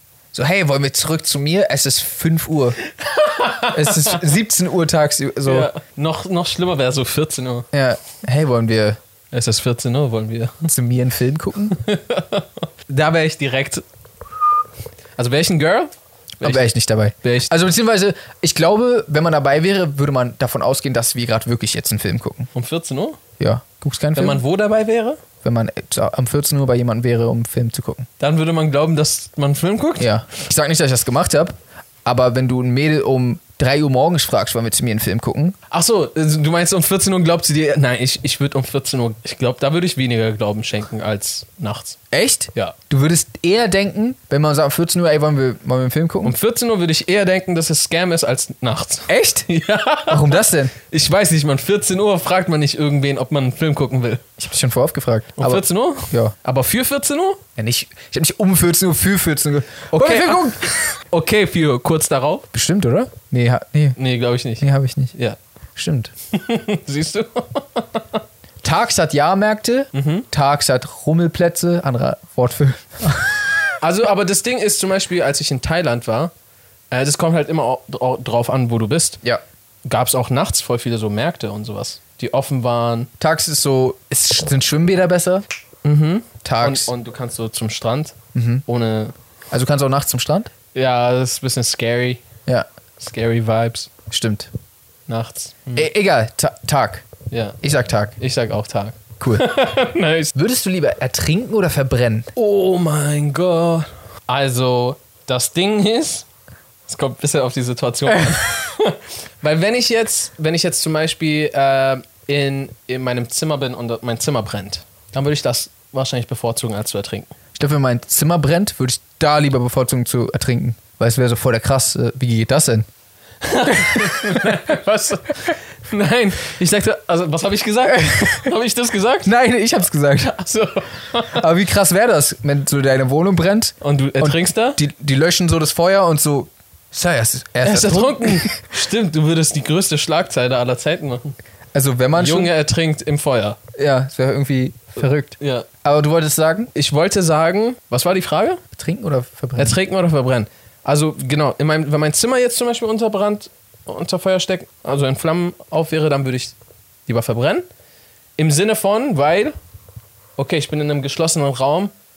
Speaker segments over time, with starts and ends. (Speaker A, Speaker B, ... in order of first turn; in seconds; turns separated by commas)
Speaker A: 0.3-2.8, Speaker B: 3.0-4.2, Speaker A: 3.7-5.7, Speaker B: 5.5-7.7, Speaker A: 7.7-9.0, Speaker B: 9.3-10.7, Speaker A: 10.7-11.8, Speaker B: 11.7-13.8, Speaker B: 15.2-16.7, Speaker A: 16.4-22.5, Speaker B: 17.2-17.5, Speaker B: 22.5-23.2, Speaker A: 23.4-24.4, Speaker B: 24.1-25.2, Speaker A: 25.4-28.1, Speaker B: 28.2-30.1, Speaker A: 30.0-35.6, Speaker B: 35.7-42.0, Speaker A: 42.1-46.4, Speaker B: 46.2-54.2, Speaker A: 49.1-49.5, Speaker A: 50.1-50.7, Speaker A: 54.4-56.3, Speaker B: 55.4-57.4, Speaker A: 57.6-60.6, Speaker B: 60.0-62.5, Speaker A: 62.5-64.0, Speaker B: 64.0-65.4, Speaker A: 64.6-65.1, Speaker A: 65.8-66.1, Speaker B: 66.3-68.2, Speaker A: 68.6-73.5, Speaker B: 69.9-70.3, Speaker B: 73.8-76.3, Speaker B: 76.9-79.2, Speaker B: 79.9-83.1, Speaker A: 83.2-85.4, Speaker B: 85.8-89.1, Speaker A: 86.4-86.9, Speaker A: 88.3-88.6, Speaker A: 89.5-90.5, Speaker B: 90.7-92.2, Speaker B: 93.0-93.9, Speaker A: 94.1-94.5, Speaker B: 95.1-95.9, Speaker A: 95.8-97.1, Speaker B: 97.3-97.6, Speaker A: 97.6-98.2, Speaker B: 98.2-100.3, Speaker A: 99.2-99.5, Speaker A: 100.3-102.3, Speaker B: 102.3-106.3, Speaker B: 106.9-117.3, Speaker A: 117.6-122.9, Speaker B: 123.4-129.3, Speaker A: 123.7-124.5, Speaker A: 127.9-128.5, Speaker A: 129.2-130.4, Speaker B: 130.2-131.4, Speaker A: 131.2-138.6, Speaker B: 133.8-134.8, Speaker B: 137.6-141.4, Speaker A: 141.7-142.5, Speaker B: 142.2-143.6, Speaker A: 143.8-146.7, Speaker B: 145.4-145.7, Speaker B: 146.8-148.6, Speaker A: 148.7-149.8, Speaker B: 149.6-156.6, Speaker B: 157.1-157.6, Speaker B: 158.4-159.5, Speaker B: 160.4-161.9